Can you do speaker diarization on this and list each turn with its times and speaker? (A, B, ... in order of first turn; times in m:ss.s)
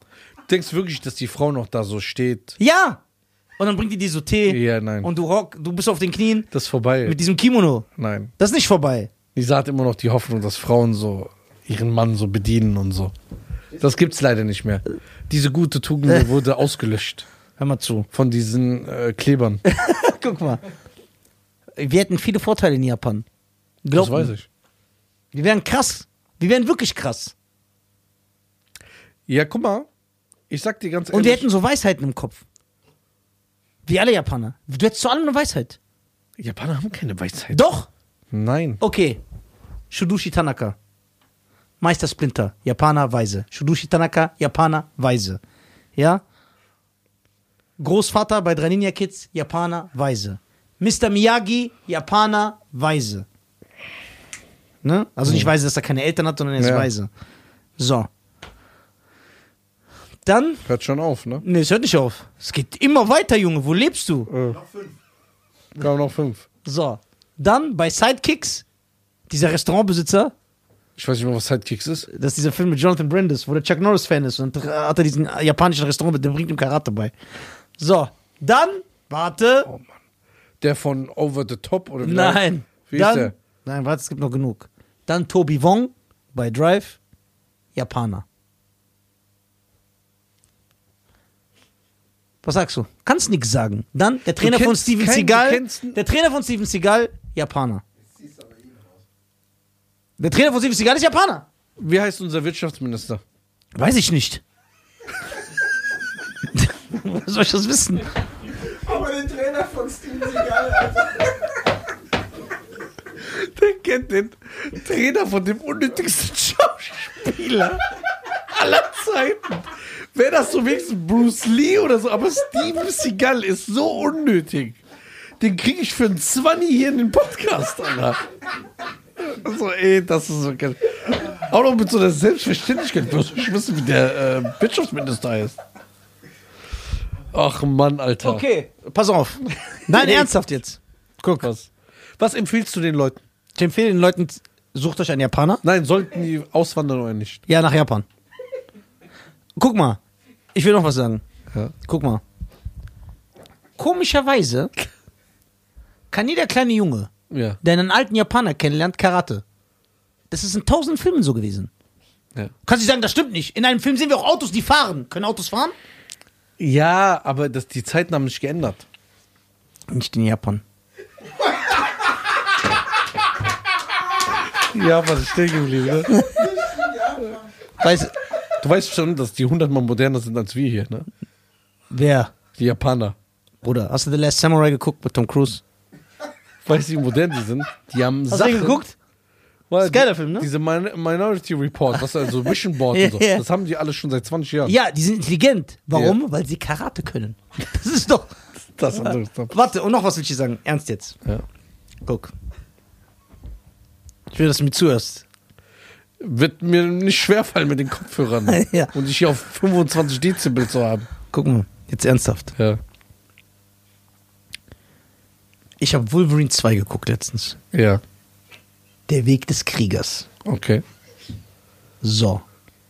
0:00.5-0:02.6 A
0:02.6-0:03.0 B
0:03.6-0:06.5 B
0:04.5-0:05.1 A
0:06.5-0:07.2 A
0:07.0-0:07.9 B
0:08.0-0:08.3 A
0:08.4-0:09.1 B
0:09.3-0:13.1 A
0:13.8-0:17.2 A
0:17.6-0:18.1 B
0:18.1-0:19.6 A
0:19.6-0:20.6 B
0:21.8-0:23.2 B
0:23.8-0:24.3 B
0:23.9-0:24.5 A
0:25.3-0:27.3 B
0:29.3-0:29.9 A
0:30.5-0:31.5 A
0:31.1-0:32.4 B
0:33.8-0:35.8 B
0:36.4-0:37.6 A
0:37.5-0:37.9 B
0:38.3-0:38.8 A
0:38.8-0:39.2 B
0:39.9-0:40.8 B
0:41.8-0:45.4 B
0:46.0-0:46.2 B
0:47.8-0:53.2 B
0:54.8-0:57.1 B
0:56.6-0:56.9 A
0:57.8-0:58.1 B
1:00.2-1:00.6 B
1:00.6-1:01.4 A
1:01.4-1:04.3 B
1:04.3-1:04.6 A
1:04.5-1:05.0 C
1:05.8-1:06.4 A
1:06.6-1:08.6 B
1:09.3-1:10.3 B
1:11.0-1:12.1 A
1:12.1-1:17.1 B
1:17.8-1:19.7 B
1:19.6-1:19.9 A
1:20.6-1:23.3 A
1:22.0-1:27.0 B
1:27.7-1:28.2 B
1:32.4-1:37.8 B
1:34.4-1:36.0 A
1:38.0-1:39.0 C
1:40.2-1:41.4 B
1:41.8-1:43.2 A
1:43.7-1:44.4 B
1:46.4-1:48.1 B
1:48.7-1:51.3 C
1:53.3-1:57.8 A
1:58.5-2:04.8 A
2:05.4-2:08.2 A
2:09.2-2:15.6 A
2:17.3-2:18.4 A
2:18.2-2:21.5 B
2:19.7-2:20.3 A
2:21.4-2:23.2 A
2:23.6-2:25.6 B
2:25.6-2:27.4 A
2:27.5-2:28.0 B
2:29.6-2:30.0 B
2:30.5-2:31.2 B
2:31.8-2:32.2 B
2:33.8-2:34.7 B
2:36.1-2:37.1 B
2:37.3-2:37.6 A
2:37.6-2:39.4 B
2:40.3-2:41.7 B
2:42.6-2:45.7 B
2:46.6-2:48.8 A
2:49.9-2:50.6 B
2:54.4-2:56.2 A
2:56.1-2:56.4 B
2:56.3-2:57.4 C
2:57.8-2:58.1 B
2:58.6-3:01.1 A
3:01.9-3:02.3 B
3:02.6-3:03.2 A
3:03.6-3:05.6 B
3:06.6-3:08.8 A
3:08.3-3:08.9 B
3:09.7-3:14.7 A
3:09.8-3:10.5 B
3:12.9-3:13.4 B
3:14.6-3:18.4 B
3:15.9-3:16.2 A
3:18.8-3:19.6 A
3:18.9-3:21.2 B
3:22.0-3:22.3 B
3:24.3-3:25.2 B
3:26.2-3:31.1 A
3:28.5-3:28.9 B
3:31.3-3:32.5 B
3:35.8-3:37.6 B
3:37.7-3:38.0 A
3:39.1-3:40.3 B
3:40.4-3:40.8 A
3:42.0-3:42.4 B